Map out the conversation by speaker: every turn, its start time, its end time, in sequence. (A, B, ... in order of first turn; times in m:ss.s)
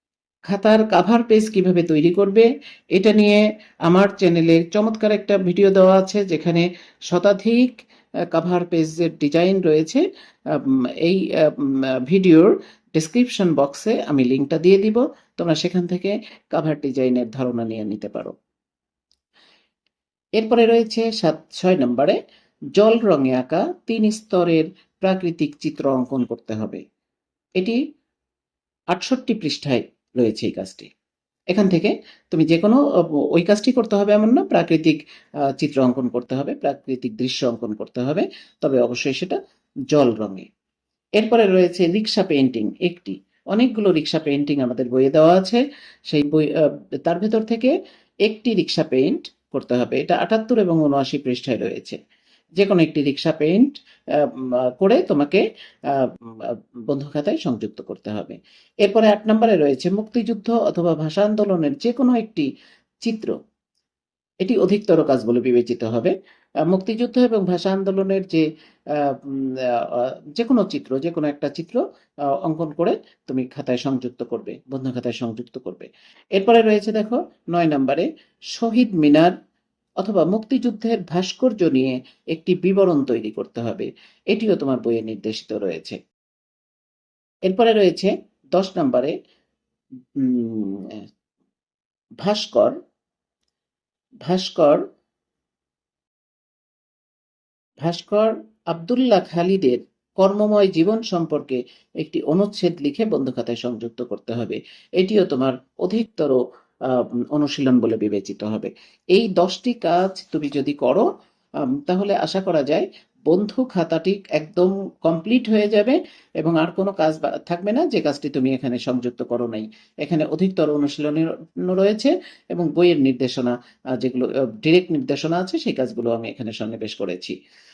0:00.5-0:07.8 A
0:08.3-0:18.3 A
0:20.4-0:22.2 A
0:22.8-0:26.8 A
0:28.9-0:30.9 A
0:31.5-0:35.0 A
0:35.6-0:39.4 A
0:39.9-0:40.5 A
0:41.2-0:47.7 A
0:48.2-0:52.0 A
0:52.6-1:02.5 A
1:03.0-1:03.3 A
1:04.4-1:06.1 A
1:06.7-1:08.4 A
1:09.0-1:11.8 A
1:12.4-1:19.3 A
1:20.0-1:26.0 A
1:27.5-1:29.1 A
1:30.2-1:31.0 A
1:32.2-1:32.8 A
1:34.2-1:34.8 A
1:37.8-1:51.1 A
1:51.7-2:07.4 A